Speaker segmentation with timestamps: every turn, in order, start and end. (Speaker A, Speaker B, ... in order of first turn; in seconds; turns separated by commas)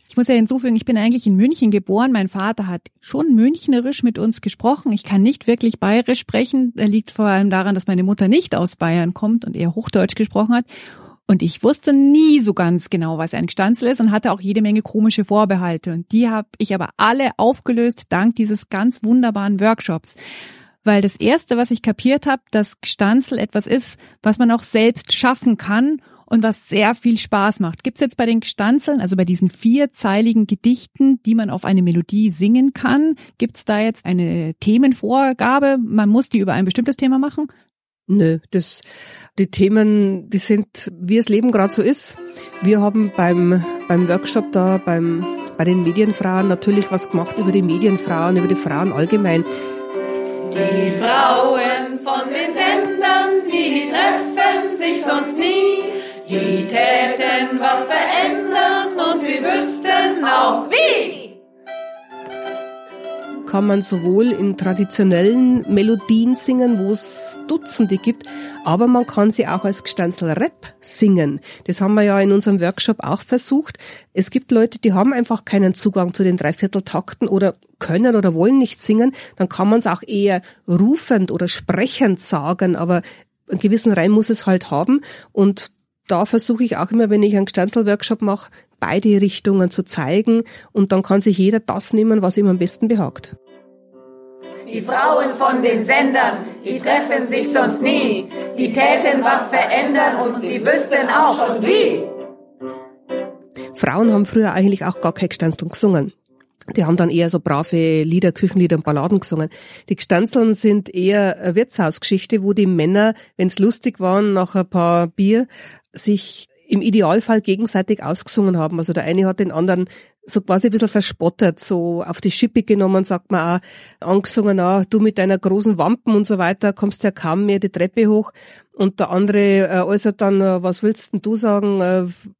Speaker A: 0.1-10.7, Speaker A: 11.3-20.2, Speaker A: 20.8-37.5, Speaker B: 38.1-49.5, Speaker C: 50.5-61.4, Speaker B: 63.5-93.3, Speaker C: 94.7-102.1, Speaker B: 103.8-106.1, Speaker B: 106.7-132.2